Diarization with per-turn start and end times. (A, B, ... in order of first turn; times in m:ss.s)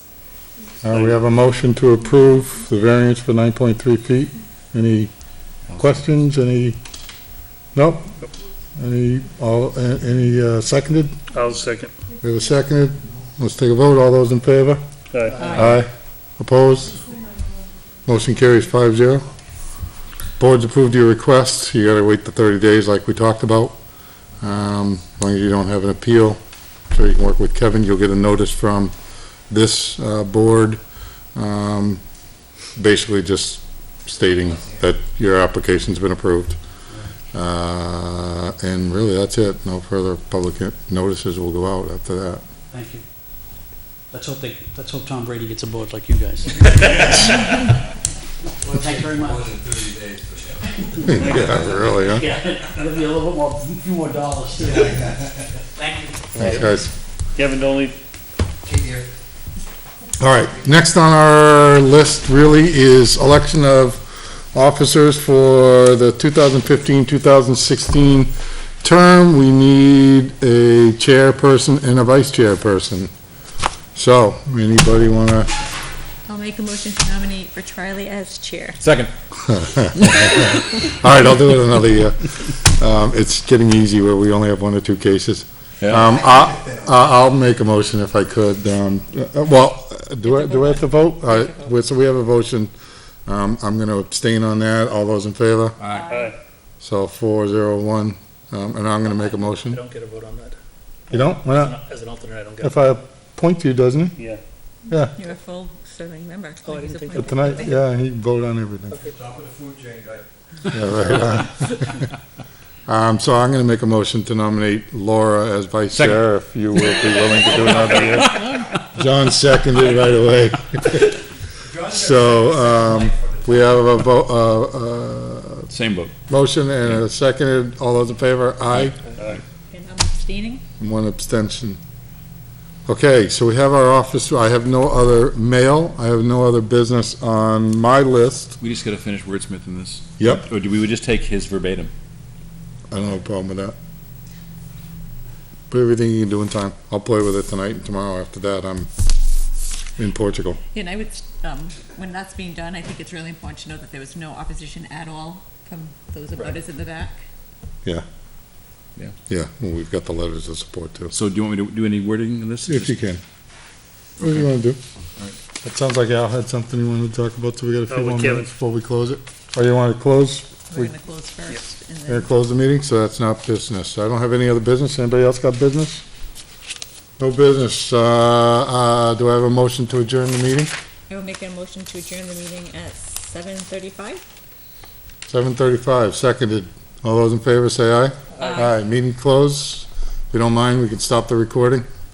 0:00.8-0:05.1 A
0:00.9-0:01.2 B
0:05.7-0:06.0 C
0:05.8-0:06.8 A
0:07.7-0:08.2 A
0:08.8-0:11.2 A
0:11.3-0:11.9 B
0:12.2-0:14.8 A
0:15.1-0:15.5 B
0:15.3-0:15.8 D
0:15.5-0:17.0 A
0:18.1-0:19.3 A
0:20.4-0:23.8 A
0:24.4-0:28.9 A
0:29.5-0:30.8 A
0:31.4-0:32.0 A
0:32.8-0:36.6 A
0:37.3-0:42.4 A
0:42.7-0:43.0 E
0:44.1-0:47.6 E
0:46.9-0:47.2 F
0:48.6-0:51.6 F
0:48.7-0:49.6 E
0:50.8-0:55.1 E
0:51.0-0:52.3 A
0:51.2-0:51.5 B
0:55.7-0:56.5 E
0:56.3-0:56.9 A
0:57.4-0:58.0 B
0:58.7-0:59.1 F
1:00.2-1:13.1 A
1:14.0-1:15.5 A
1:16.3-1:18.8 D
1:18.8-1:19.1 C
1:19.5-1:32.7 A
1:25.8-1:26.1 C
1:30.3-1:31.7 D
1:33.3-1:35.8 A
1:35.8-1:36.1 C
1:35.9-1:36.3 D
1:36.1-1:36.4 B
1:36.8-1:39.8 A
1:39.7-1:40.6 B
1:41.1-1:41.8 A
1:41.1-1:42.9 B
1:42.6-1:44.2 A
1:44.9-1:45.1 A
1:44.9-1:47.8 D
1:46.6-1:47.6 B
1:47.1-1:49.0 A
1:48.9-1:49.2 B
1:49.1-1:50.3 F
1:50.7-1:52.0 A
1:52.9-2:01.2 A
1:55.9-1:56.2 C
1:57.6-1:58.2 B
2:01.7-2:03.5 F
2:01.9-2:05.7 A
2:05.7-2:06.1 C
2:06.3-2:09.0 A
2:09.7-2:10.6 D
2:10.8-2:11.8 A
2:12.9-2:18.6 A
2:18.6-2:21.9 C
2:20.2-2:20.5 A
2:22.9-2:23.8 A
2:25.7-2:28.9 A
2:30.0-2:30.6 A
2:30.7-2:37.2 D
2:39.3-2:41.1 A
2:41.1-2:43.0 C
2:42.7-2:43.2 A
2:44.2-2:44.8 A
2:45.6-2:50.9 A
2:47.9-2:48.5 B
2:50.7-2:52.3 D
2:52.1-2:56.0 A
2:57.2-3:00.7 A
3:01.1-3:04.2 D
3:05.3-3:11.9 A
3:08.4-3:08.7 D